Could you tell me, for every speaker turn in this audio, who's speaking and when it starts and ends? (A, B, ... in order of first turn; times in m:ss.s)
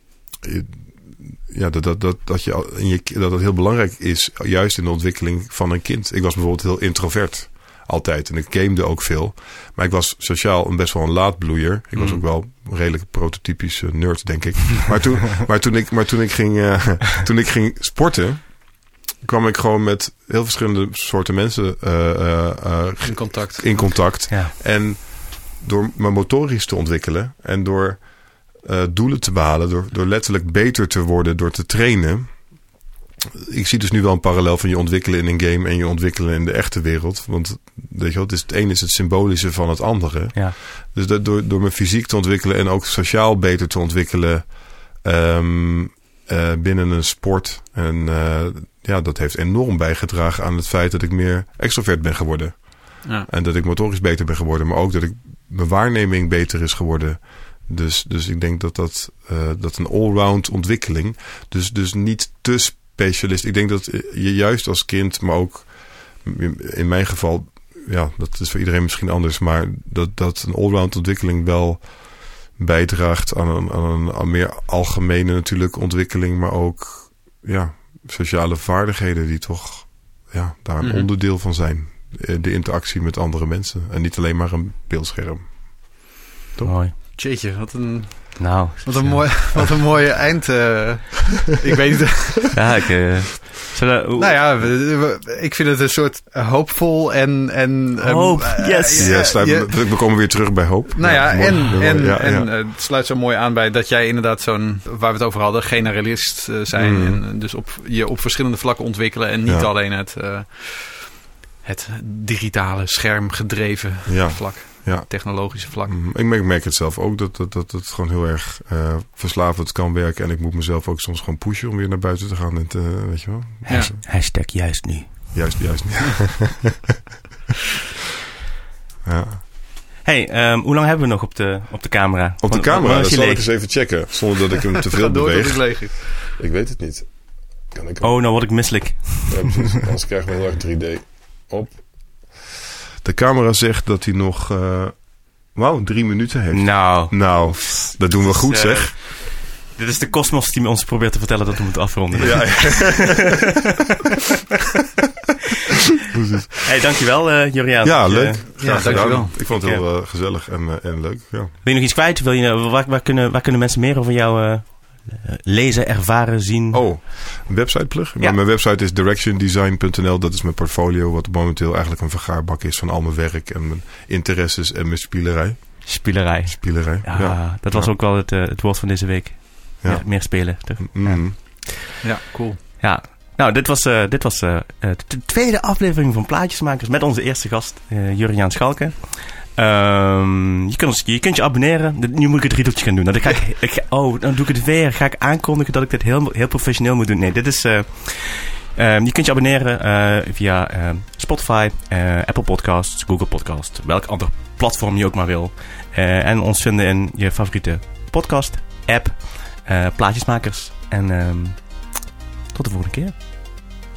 0:00.4-0:32.8 A
0:12.0-0:12.2 B
0:23.1-0:24.2 C
0:24.3-0:24.5 B
0:33.4-1:26.8 A
1:20.8-1:21.1 C
1:26.6-1:27.0 B
1:27.1-1:32.6 C
1:28.4-1:29.4 B
1:32.5-1:34.6 B
1:34.2-1:56.0 C
1:38.0-1:39.4 B
1:39.0-1:42.5 A
1:46.7-1:47.2 A
1:49.5-1:49.7 A
1:54.1-2:04.0 A
2:03.7-2:03.9 C
2:04.0-2:05.7 B
2:05.3-2:06.8 A
2:09.0-2:09.4 A
2:10.0-2:14.2 B
2:12.4-2:22.4 A
2:14.9-2:16.2 C
2:18.0-2:19.6 B
2:23.0-2:29.0 A
2:26.5-2:33.2 B
2:32.2-2:33.4 A
2:36.1-2:36.5 A
2:36.6-2:39.8 B
2:37.8-2:41.6 A
2:38.2-2:39.3 C
2:41.6-2:47.1 B
2:46.7-2:57.9 A
2:55.8-3:01.8 B
2:59.8-3:01.4 A
3:02.0-3:02.6 C
3:02.8-3:33.1 B